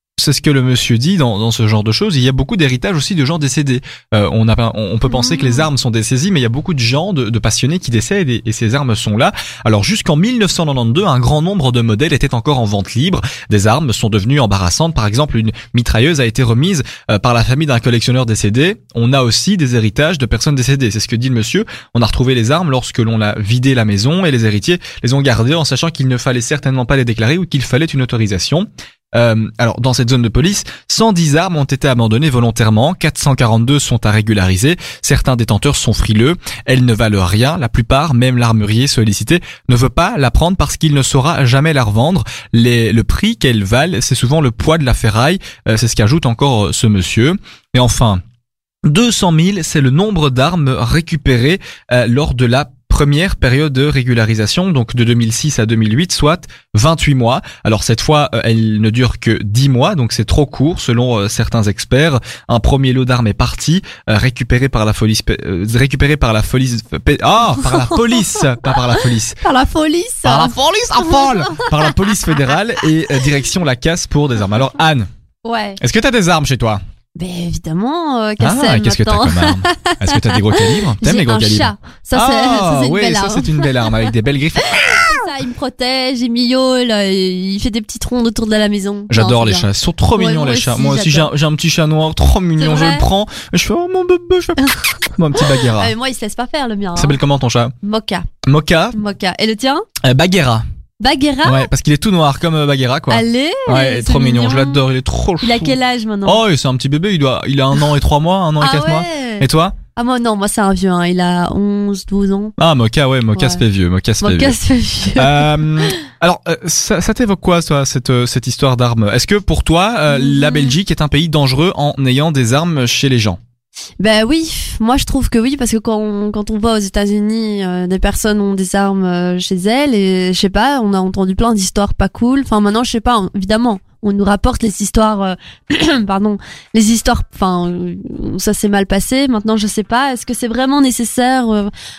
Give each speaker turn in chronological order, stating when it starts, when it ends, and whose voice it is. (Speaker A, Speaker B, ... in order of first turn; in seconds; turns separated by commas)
Speaker A: 0.2-48.2, Speaker B: 5.1-5.7, Speaker A: 48.8-69.4, Speaker B: 67.6-72.0, Speaker A: 70.2-75.1, Speaker B: 75.4-75.8, Speaker A: 75.8-76.8, Speaker B: 77.2-84.1, Speaker A: 78.4-85.2, Speaker B: 84.7-91.3, Speaker A: 89.1-95.9, Speaker B: 92.6-93.0, Speaker B: 95.4-97.2, Speaker A: 97.0-97.7, Speaker B: 97.8-98.2, Speaker A: 98.4-99.0, Speaker B: 98.9-99.8, Speaker A: 100.0-100.6, Speaker B: 101.0-101.7, Speaker A: 101.4-109.8, Speaker B: 103.1-104.8, Speaker B: 105.4-106.4, Speaker B: 108.6-112.5, Speaker A: 112.6-114.5, Speaker B: 113.3-113.6, Speaker B: 114.2-116.0, Speaker A: 115.2-123.4, Speaker B: 120.1-120.7, Speaker B: 124.0-141.7